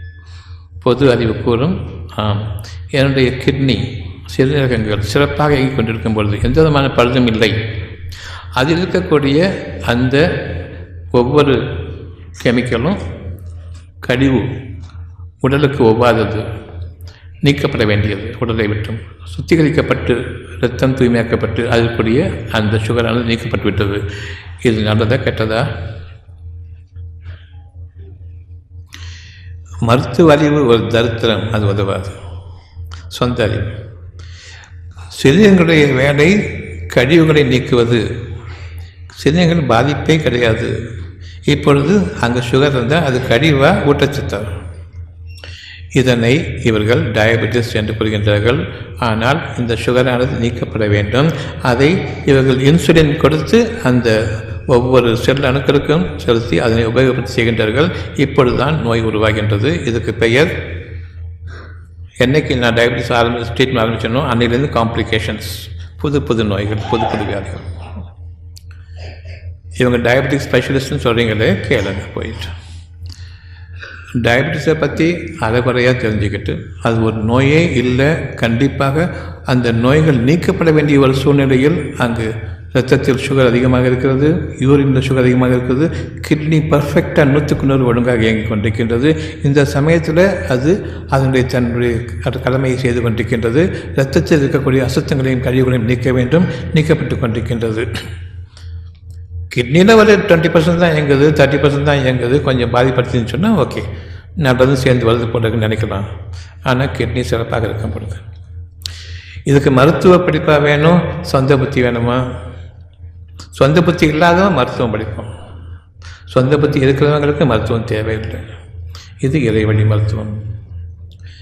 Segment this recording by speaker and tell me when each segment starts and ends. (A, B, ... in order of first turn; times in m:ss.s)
0:00.8-0:07.6 A
0:08.6-0:10.5 A
0:11.1-0:13.0 A
0:14.0-0:14.5 A
0:15.4-0:16.5 A
0:17.4-0:24.0 A
0:24.6-0:25.7 A
0:29.8-0:32.2 A
0:33.1-0:33.8 A
0:35.2-0:38.1 A
0:39.2-0:40.7 A
0:41.5-0:44.5 A
0:46.0-1:00.5 A
1:02.2-1:07.7 A
1:09.8-1:12.5 A
1:14.2-1:37.9 A
1:39.5-1:43.9 A
1:44.4-1:46.1 A
1:46.7-1:48.2 A
1:49.5-1:52.2 A
1:53.6-1:55.3 A
1:56.3-1:58.5 A
1:59.2-2:00.4 A